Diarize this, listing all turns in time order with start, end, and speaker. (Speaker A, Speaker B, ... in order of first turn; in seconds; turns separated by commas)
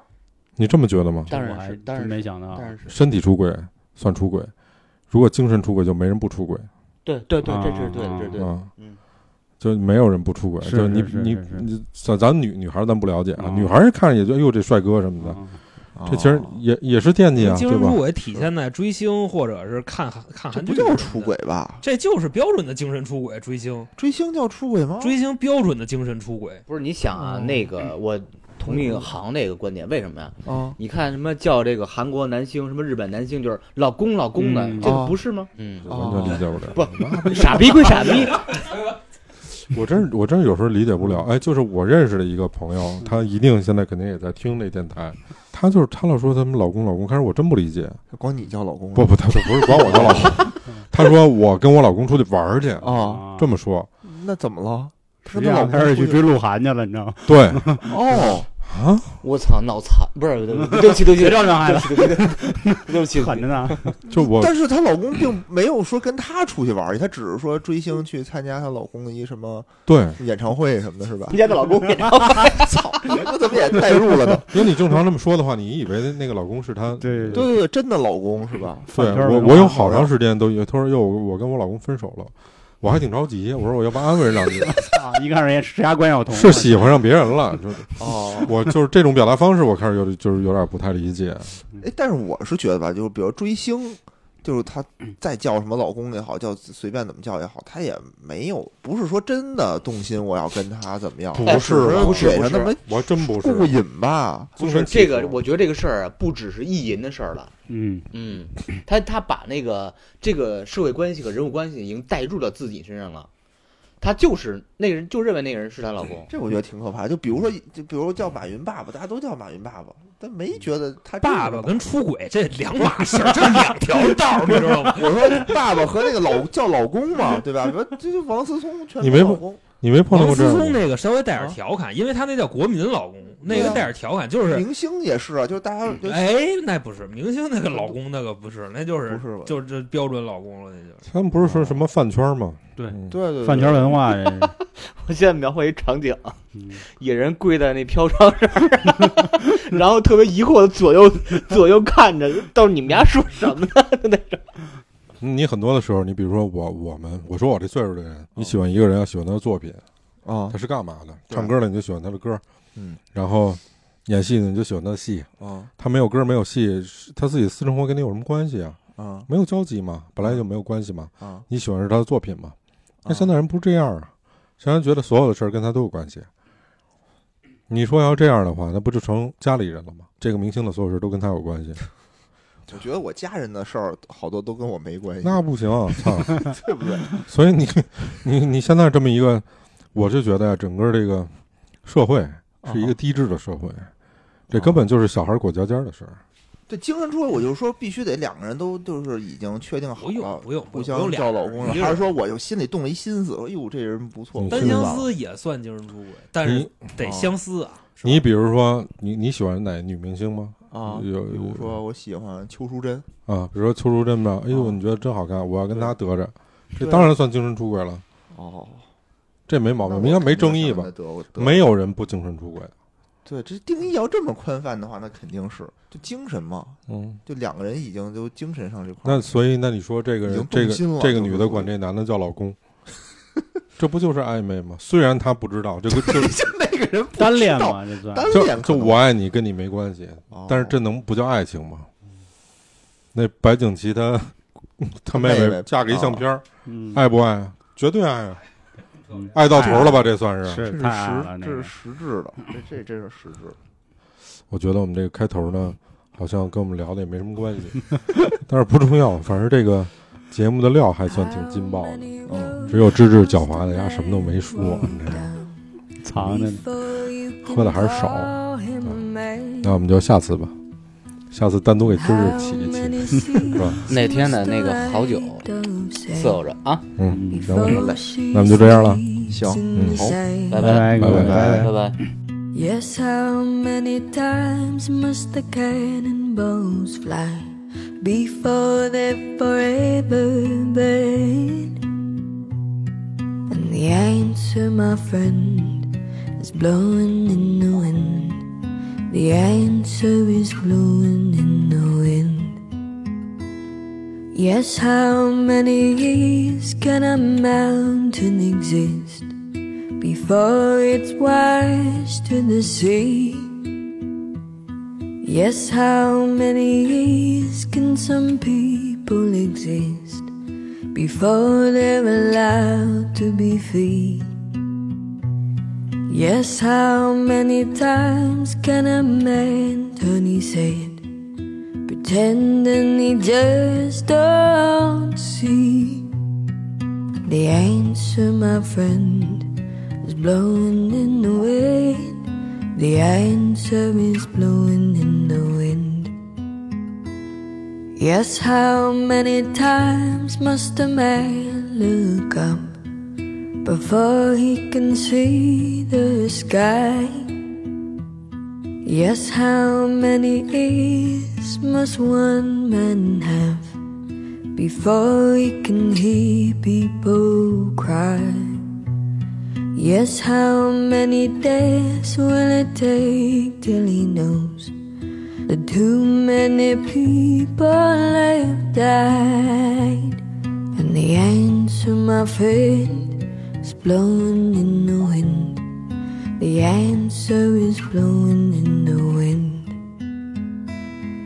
Speaker A: 0.6-1.3, Speaker B: 1.3-2.7, Speaker C: 1.3-3.0, Speaker A: 2.9-4.5, Speaker A: 5.1-6.7, Speaker C: 7.0-9.0, Speaker B: 7.4-8.4, Speaker A: 8.4-8.7, Speaker A: 9.6-15.4, Speaker B: 10.6-11.7, Speaker B: 13.4-13.7, Speaker B: 15.2-15.6, Speaker D: 15.9-16.6, Speaker A: 16.1-18.0, Speaker E: 17.4-23.9, Speaker D: 20.5-21.8, Speaker D: 24.0-25.2, Speaker E: 25.0-26.6, Speaker C: 26.7-38.7, Speaker D: 27.3-27.6, Speaker D: 28.7-29.1, Speaker D: 30.4-30.8, Speaker B: 34.4-35.1, Speaker D: 34.8-35.2, Speaker A: 35.8-37.6, Speaker D: 35.9-36.5, Speaker A: 39.5-48.0, Speaker D: 48.1-50.6, Speaker A: 49.0-53.9, Speaker D: 52.8-53.2, Speaker B: 52.8-53.5, Speaker D: 54.0-56.2, Speaker B: 55.2-58.2, Speaker A: 57.3-57.7, Speaker D: 57.8-58.5, Speaker A: 58.6-59.2, Speaker C: 59.2-64.0, Speaker B: 60.5-64.0, Speaker D: 64.1-71.4, Speaker A: 64.1-64.5, Speaker A: 69.9-70.2, Speaker C: 71.3-73.2, Speaker D: 72.5-74.6, Speaker A: 74.5-77.5, Speaker B: 77.0-77.5, Speaker D: 77.3-79.0, Speaker B: 78.9-80.0, Speaker A: 78.9-84.8, Speaker D: 79.7-80.1, Speaker B: 84.7-87.0, Speaker A: 86.3-91.6, Speaker D: 88.0-88.6, Speaker D: 91.8-104.7, Speaker A: 101.3-103.7, Speaker C: 101.4-102.8, Speaker A: 104.6-105.5, Speaker C: 104.6-107.5, Speaker B: 107.7-108.1, Speaker C: 108.1-113.3, Speaker C: 114.0-116.3, Speaker D: 116.3-121.9, Speaker E: 121.2-125.5, Speaker D: 123.2-123.5, Speaker D: 124.1-129.6, Speaker A: 129.0-130.8, Speaker E: 130.1-134.7, Speaker D: 131.3-131.6, Speaker D: 133.4-133.9, Speaker D: 134.5-136.3, Speaker E: 136.0-141.1, Speaker D: 139.1-139.6, Speaker A: 141.1-143.2, Speaker D: 141.4-141.8, Speaker B: 142.8-144.6, Speaker D: 143.1-144.1, Speaker C: 144.9-154.5, Speaker B: 146.5-146.8, Speaker A: 155.2-159.8, Speaker D: 160.2-160.6, Speaker A: 160.5-162.4, Speaker A: 163.1-172.6, Speaker D: 165.4-165.7, Speaker D: 168.9-169.3, Speaker D: 171.2-171.4, Speaker D: 173.0-173.3, Speaker A: 173.1-176.3, Speaker A: 177.7-181.8, Speaker D: 182.7-185.4, Speaker A: 185.2-186.6, Speaker D: 185.9-187.2, Speaker A: 187.1-191.3, Speaker A: 191.8-193.9, Speaker D: 192.6-193.0, Speaker D: 194.5-194.9, Speaker A: 194.5-196.2, Speaker D: 196.7-205.1, Speaker E: 200.0-202.1, Speaker A: 204.4-205.1, Speaker E: 204.5-208.2, Speaker A: 206.4-206.9, Speaker D: 207.0-207.3, Speaker A: 208.0-211.8, Speaker D: 210.7-213.1, Speaker A: 213.3-218.0, Speaker D: 214.5-214.8, Speaker D: 216.8-217.1, Speaker D: 218.3-218.8, Speaker A: 219.5-222.7, Speaker D: 219.8-221.7, Speaker D: 223.2-229.3, Speaker A: 226.9-227.2, Speaker A: 229.0-232.6, Speaker D: 230.2-231.7, Speaker A: 233.8-236.5, Speaker D: 235.9-239.0, Speaker B: 237.2-238.5, Speaker A: 238.3-241.9, Speaker D: 240.3-240.8, Speaker A: 243.1-248.4, Speaker D: 245.1-246.2, Speaker B: 246.7-247.1, Speaker B: 249.1-251.7, Speaker A: 249.3-250.7, Speaker D: 250.6-253.6, Speaker A: 254.5-265.2, Speaker F: 261.1-269.8, Speaker D: 262.3-262.6, Speaker B: 266.0-266.6, Speaker A: 267.4-268.3, Speaker A: 269.6-270.6, Speaker A: 271.3-273.8, Speaker F: 271.9-276.5, Speaker C: 273.9-275.5, Speaker C: 276.1-276.9, Speaker A: 277.0-279.0, Speaker B: 277.1-277.5, Speaker F: 277.3-280.8, Speaker D: 277.7-278.1, Speaker D: 279.3-280.2, Speaker A: 279.7-280.1, Speaker C: 280.5-282.0, Speaker B: 280.6-281.9, Speaker A: 280.8-281.7, Speaker D: 281.0-281.7, Speaker F: 282.5-291.8, Speaker F: 293.5-298.5, Speaker F: 299.1-302.6, Speaker F: 304.3-309.3, Speaker F: 310.0-313.6, Speaker F: 315.2-320.3, Speaker F: 320.9-324.3, Speaker F: 326.1-331.0, Speaker F: 331.9-336.1, Speaker F: 337.3-346.1, Speaker F: 348.0-352.8, Speaker F: 353.6-357.3, Speaker F: 358.8-363.8, Speaker F: 364.6-368.6, Speaker F: 369.8-374.7, Speaker F: 375.5-380.2, Speaker F: 380.8-385.8, Speaker F: 386.4-389.8